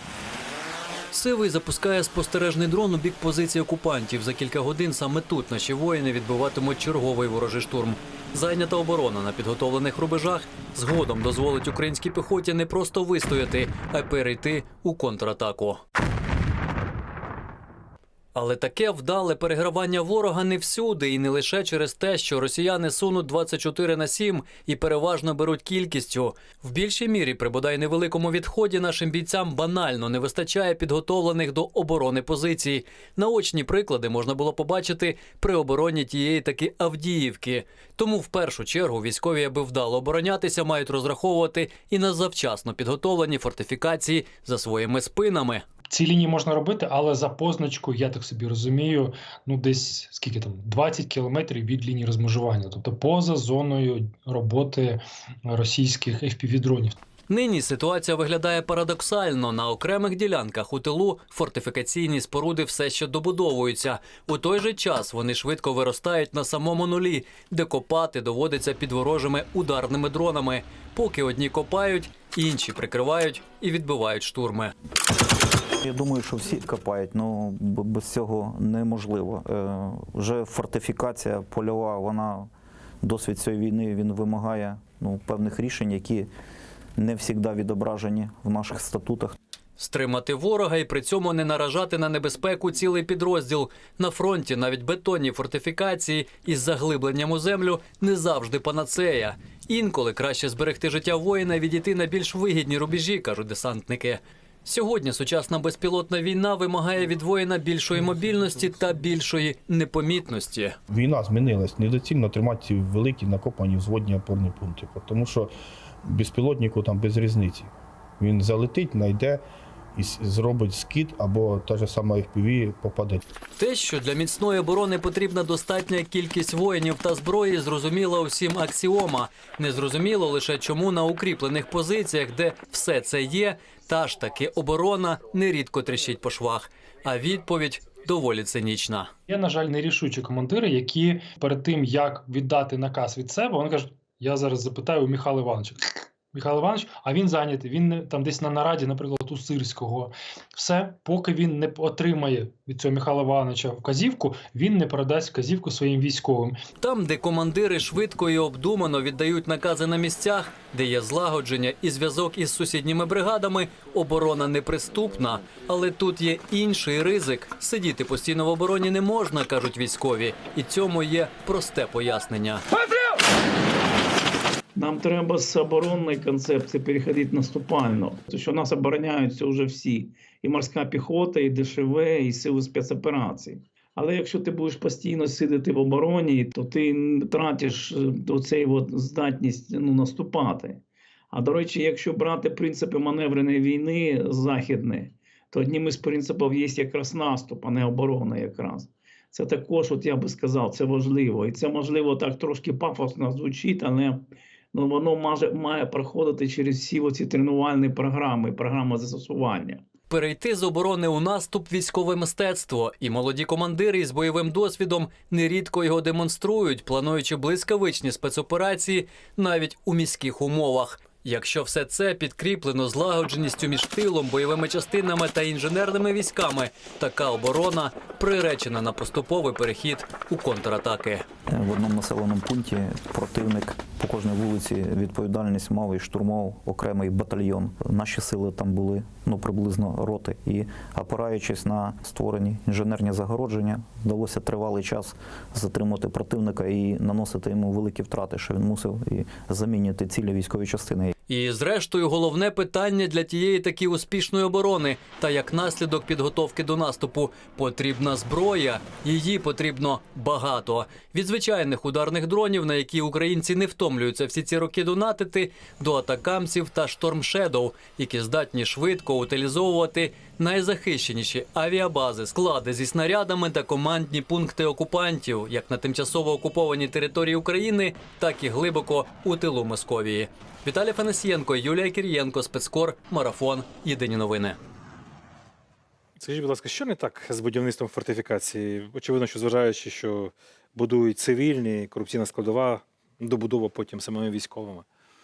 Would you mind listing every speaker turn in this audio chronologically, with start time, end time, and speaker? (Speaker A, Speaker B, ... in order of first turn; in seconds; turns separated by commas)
Speaker A: 1.1-15.8, Speaker A: 18.3-45.6, Speaker B: 45.9-57.0, Speaker A: 57.3-74.7, Speaker C: 75.8-82.5, Speaker C: 83.0-86.3, Speaker C: 87.0-89.3, Speaker A: 89.8-110.7, Speaker D: 110.9-115.5, Speaker D: 116.0-119.4, Speaker D: 120.0-123.2, Speaker A: 123.6-139.1, Speaker B: 139.3-156.6, Speaker A: 156.8-172.6, Speaker E: 174.8-209.8, Speaker A: 210.1-231.2, Speaker C: 231.5-251.1, Speaker A: 251.3-284.6, Speaker F: 286.2-294.9